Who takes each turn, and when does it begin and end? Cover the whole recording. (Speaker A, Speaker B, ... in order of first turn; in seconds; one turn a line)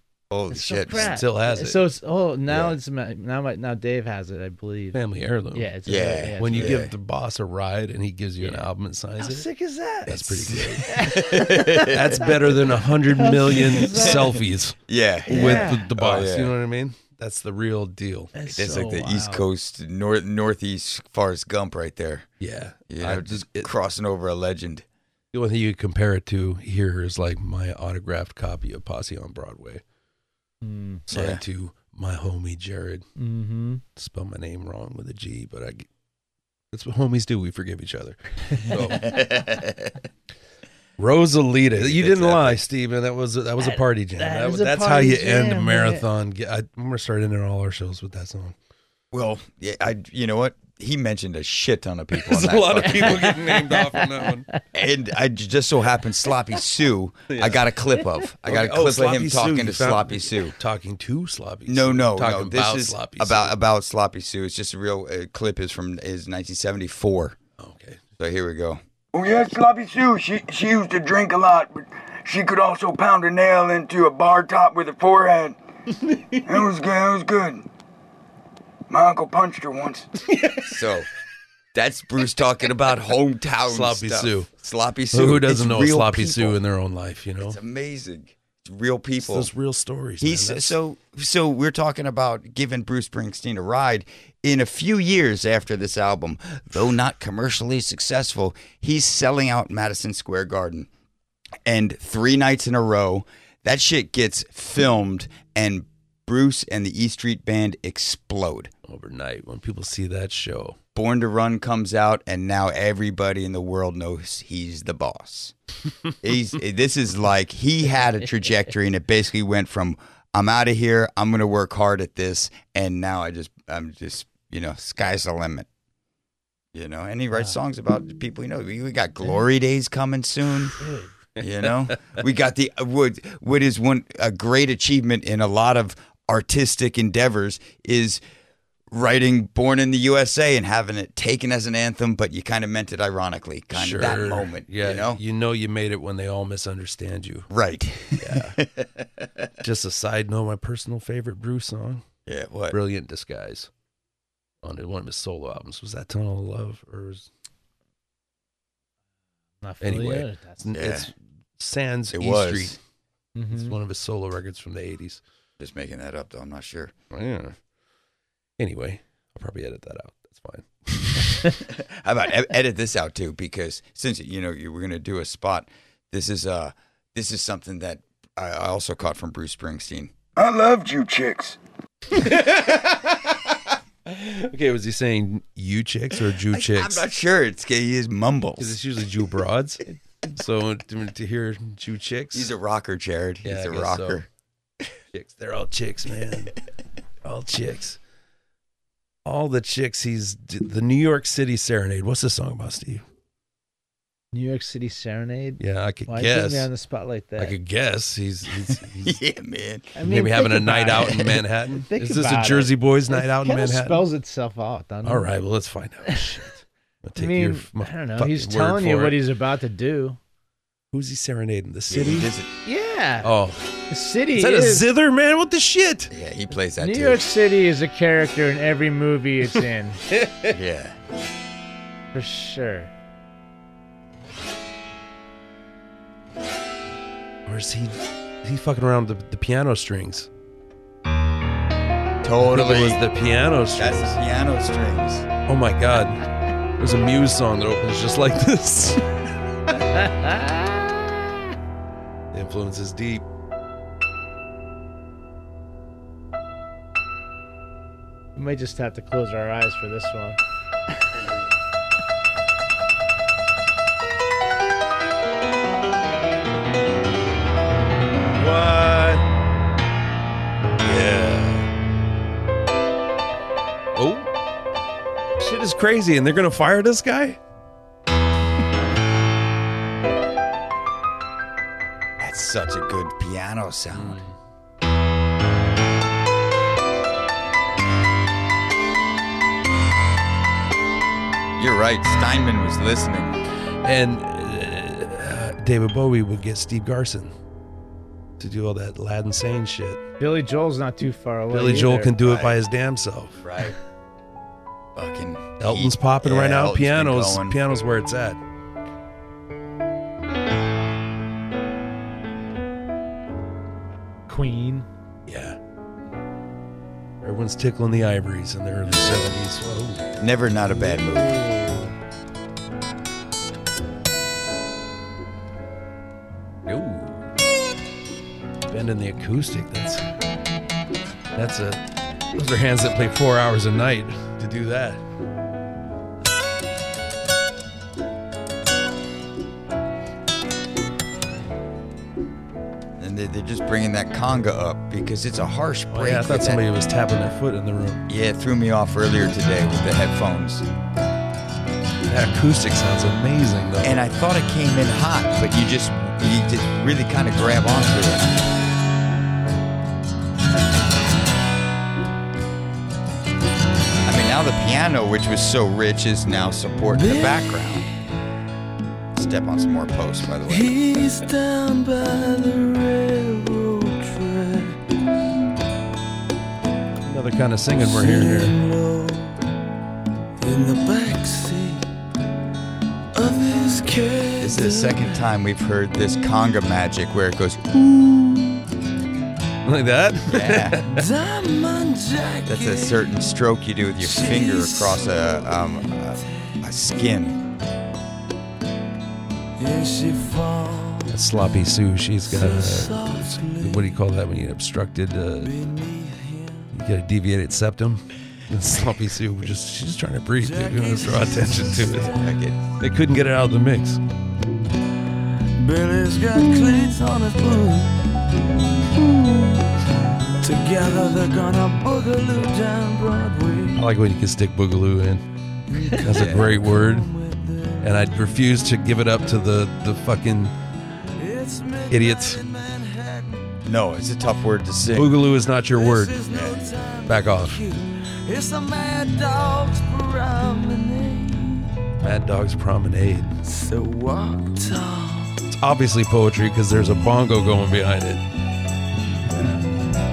Speaker A: 0.3-1.2
Speaker B: 0.5-5.0
Speaker C: 0.9-1.9
Speaker A: 2.5-2.8
Speaker C: 4.9-5.7
Speaker B: 5.5-6.8
Speaker A: 5.9-6.9
Speaker C: 6.4-9.5
Speaker B: 8.4-8.7
Speaker B: 9.2-10.2
Speaker C: 10.1-18.3
Speaker A: 10.1-12.4
Speaker B: 10.8-12.3
Speaker B: 13.1-14.4
Speaker A: 14.9-16.5
Speaker B: 15.3-15.9
Speaker B: 18.3-19.4
Speaker A: 18.5-22.3
Speaker C: 22.4-23.7
Speaker A: 22.9-24.9
Speaker C: 25.3-29.8
Speaker B: 30.6-31.1
Speaker C: 31.1-33.1
Speaker A: 31.1-31.4
Speaker B: 33.2-33.8
Speaker C: 34.0-35.9
Speaker C: 36.7-39.2
Speaker A: 38.7-40.0
Speaker C: 41.0-48.5
Speaker A: 41.7-42.7
Speaker B: 43.6-46.0
Speaker A: 49.1-53.4
Speaker C: 52.2-54.5
Speaker B: 53.6-54.6
Speaker A: 54.7-60.6
Speaker C: 57.3-63.5
Speaker A: 61.7-67.4
Speaker C: 67.6-68.0
Speaker A: 68.2-68.8
Speaker D: 69.1-75.6
Speaker C: 76.1-76.5
Speaker D: 76.3-77.7
Speaker D: 78.9-80.1
Speaker C: 80.3-80.8
Speaker A: 80.6-81.1
Speaker A: 81.7-86.6
Speaker C: 83.7-84.5
Speaker C: 85.1-87.6
Speaker A: 87.4-89.5
Speaker C: 89.2-90.8
Speaker A: 90.2-100.9
Speaker A: 101.7-108.7
Speaker C: 108.9-110.8
Speaker A: 111.0-115.5
Speaker A: 116.2-125.7
Speaker A: 126.7-130.8
Speaker B: 130.8-131.1
Speaker A: 131.4-138.2
Speaker A: 138.9-145.2
Speaker C: 143.7-147.5
Speaker A: 147.5-149.5
Speaker C: 148.2-148.6
Speaker C: 149.6-152.1
Speaker A: 152.3-152.8
Speaker C: 152.7-153.7
Speaker C: 154.6-157.3
Speaker B: 159.6-160.8
Speaker C: 159.8-162.8
Speaker A: 160.7-161.1
Speaker A: 162.1-162.8
Speaker B: 163.3-163.8
Speaker C: 163.5-165.2
Speaker A: 165.6-166.9
Speaker C: 167.1-167.6
Speaker C: 168.6-171.6
Speaker A: 171.7-180.1
Speaker D: 180.4-181.6
Speaker C: 182.1-183.4
Speaker C: 184.1-187.1
Speaker A: 186.3-188.8
Speaker C: 188.6-192.5
Speaker A: 192.3-194.3
Speaker C: 193.4-194.2
Speaker C: 195.1-196.6
Speaker C: 197.2-198.0
Speaker C: 199.2-203.1
Speaker B: 204.3-207.6
Speaker C: 205.6-206.7
Speaker C: 207.4-209.2
Speaker A: 208.7-209.9
Speaker B: 209.9-215.3
Speaker C: 210.0-214.1
Speaker C: 215.0-219.2
Speaker B: 216.1-216.4
Speaker B: 217.2-220.2
Speaker C: 220.9-222.3
Speaker A: 221.9-222.5
Speaker B: 222.7-223.3
Speaker C: 223.2-223.7
Speaker B: 223.9-224.9
Speaker C: 224.3-226.1
Speaker A: 226.1-227.3
Speaker B: 226.8-230.0
Speaker C: 230.2-230.5
Speaker A: 230.5-231.0
Speaker B: 232.1-232.9
Speaker C: 237.5-240.3
Speaker A: 242.2-243.0
Speaker C: 242.4-244.2
Speaker A: 243.8-245.3
Speaker C: 245.5-246.2
Speaker C: 246.8-249.2
Speaker B: 249.8-251.2
Speaker C: 252.3-253.3
Speaker B: 258.4-260.4
Speaker C: 268.4-269.2
Speaker C: 270.8-271.7
Speaker C: 274.0-274.3
Speaker C: 275.4-277.4
Speaker A: 282.2-284.2
Speaker C: 283.9-284.4
Speaker A: 291.6-293.4
Speaker C: 293.8-297.3
Speaker C: 298.4-300.0
Speaker B: 300.2-302.1
Speaker C: 301.5-303.5
Speaker A: 302.2-302.6
Speaker A: 303.4-303.8
Speaker A: 304.9-307.6
Speaker C: 305.6-308.4
Speaker B: 314.3-314.9
Speaker C: 315.3-315.6
Speaker C: 317.2-320.0
Speaker A: 320.2-321.4
Speaker C: 321.4-321.7
Speaker C: 326.7-327.2
Speaker C: 328.7-330.0
Speaker C: 331.4-331.8
Speaker C: 332.3-335.0
Speaker A: 343.0-346.6
Speaker C: 345.9-348.1
Speaker A: 348.1-350.7
Speaker C: 352.1-354.0
Speaker A: 353.8-358.3
Speaker A: 364.1-367.9
Speaker E: 366.9-367.9
Speaker A: 369.1-370.8
Speaker E: 370.5-374.8
Speaker C: 377.0-378.6
Speaker E: 377.8-379.4
Speaker E: 380.4-381.9
Speaker E: 383.1-385.2
Speaker A: 384.4-387.6
Speaker C: 387.8-388.6
Speaker C: 389.6-391.0
Speaker A: 390.3-390.8
Speaker E: 390.9-393.0
Speaker A: 392.5-397.4
Speaker E: 394.0-396.6
Speaker E: 399.6-401.2
Speaker C: 401.1-405.5
Speaker E: 402.3-404.0
Speaker E: 405.4-406.7
Speaker C: 406.7-412.1
Speaker E: 410.4-412.3
Speaker A: 412.1-412.6
Speaker C: 412.8-414.0
Speaker E: 415.4-418.2
Speaker E: 418.8-419.8
Speaker E: 420.4-423.8
Speaker C: 423.8-425.2
Speaker E: 425.7-428.0
Speaker C: 425.9-427.1
Speaker A: 426.1-426.6
Speaker C: 427.8-430.5
Speaker E: 431.2-433.6
Speaker C: 431.9-432.4
Speaker A: 433.6-435.2
Speaker C: 434.9-436.2
Speaker E: 435.7-441.8
Speaker A: 436.3-436.6
Speaker C: 437.1-437.6
Speaker C: 442.0-443.4
Speaker E: 443.4-445.4
Speaker C: 445.5-448.2
Speaker A: 449.3-449.6